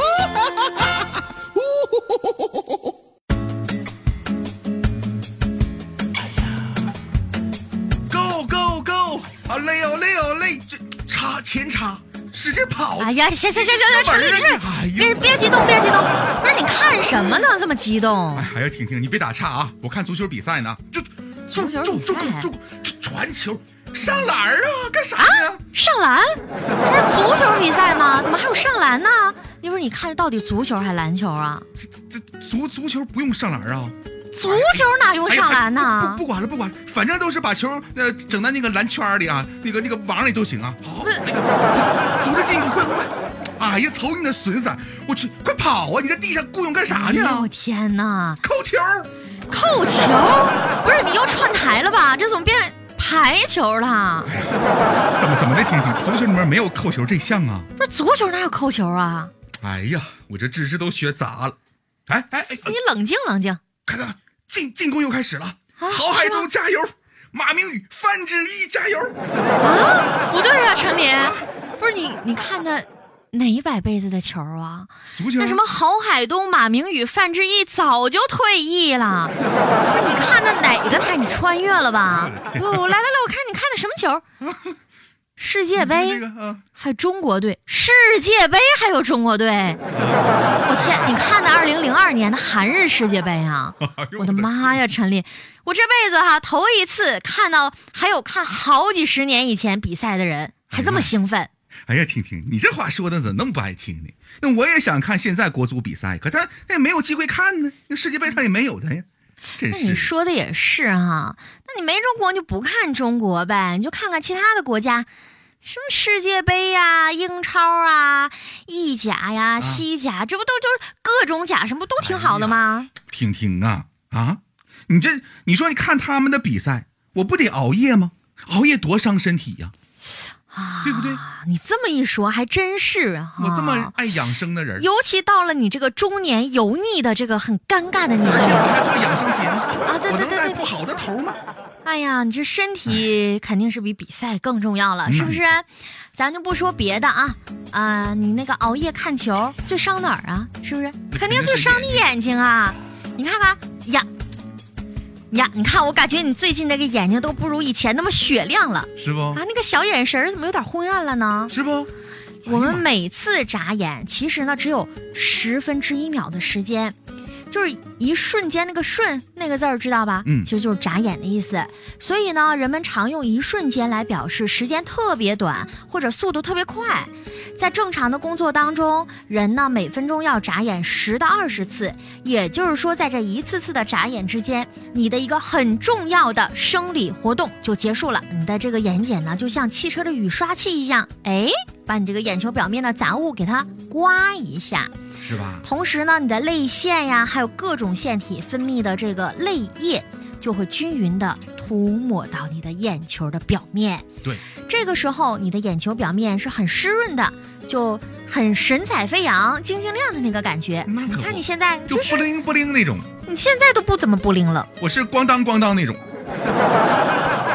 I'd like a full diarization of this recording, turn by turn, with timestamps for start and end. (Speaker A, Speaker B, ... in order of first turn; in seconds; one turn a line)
Speaker A: 0.5-0.9
Speaker A: 1.8-2.1
Speaker A: 8.1-15.5
Speaker B: 13.0-18.5
Speaker A: 18.3-25.6
Speaker B: 21.5-22.5
Speaker B: 25.2-31.6
Speaker A: 31.8-47.5
Speaker B: 34.3-36.2
Speaker B: 46.9-48.4
Speaker A: 48.4-49.1
Speaker B: 49.5-54.3
Speaker A: 54.2-57.7
Speaker B: 57.8-59.3
Speaker A: 59.6-62.7
Speaker B: 62.4-63.6
Speaker A: 63.9-69.1
Speaker B: 65.8-66.5
Speaker B: 69.6-79.3
Speaker A: 75.1-75.6
Speaker B: 79.9-84.2
Speaker A: 82.1-82.9
Speaker A: 84.4-84.8
Speaker B: 85.4-86.2
Speaker A: 85.7-86.6
Speaker B: 86.7-89.8
Speaker A: 89.9-91.2
Speaker B: 90.6-101.5
Speaker A: 93.8-94.8
Speaker A: 100.7-101.1
Speaker A: 101.9-110.1
Speaker B: 109.7-115.1
Speaker B: 115.6-122.9
Speaker A: 119.6-119.8
Speaker A: 122.0-129.7
Speaker B: 130.5-133.9
Speaker A: 130.8-131.2
Speaker A: 133.4-134.9
Speaker B: 134.8-138.7
Speaker A: 138.3-141.4
Speaker B: 139.8-140.7
Speaker B: 141.8-154.1
Speaker A: 145.1-145.4
Speaker A: 151.1-152.1
Speaker B: 155.3-161.5
Speaker A: 159.0-159.4
Speaker A: 161.5-161.9
Speaker A: 162.4-162.8
Speaker B: 162.4-166.9
Speaker B: 167.5-194.9
Speaker A: 170.2-170.5
Speaker A: 195.2-195.6
Speaker B: 195.6-204.1
Speaker B: 204.6-212.3
Speaker A: 210.8-213.1
Speaker B: 213.2-214.7
Speaker A: 214.8-216.0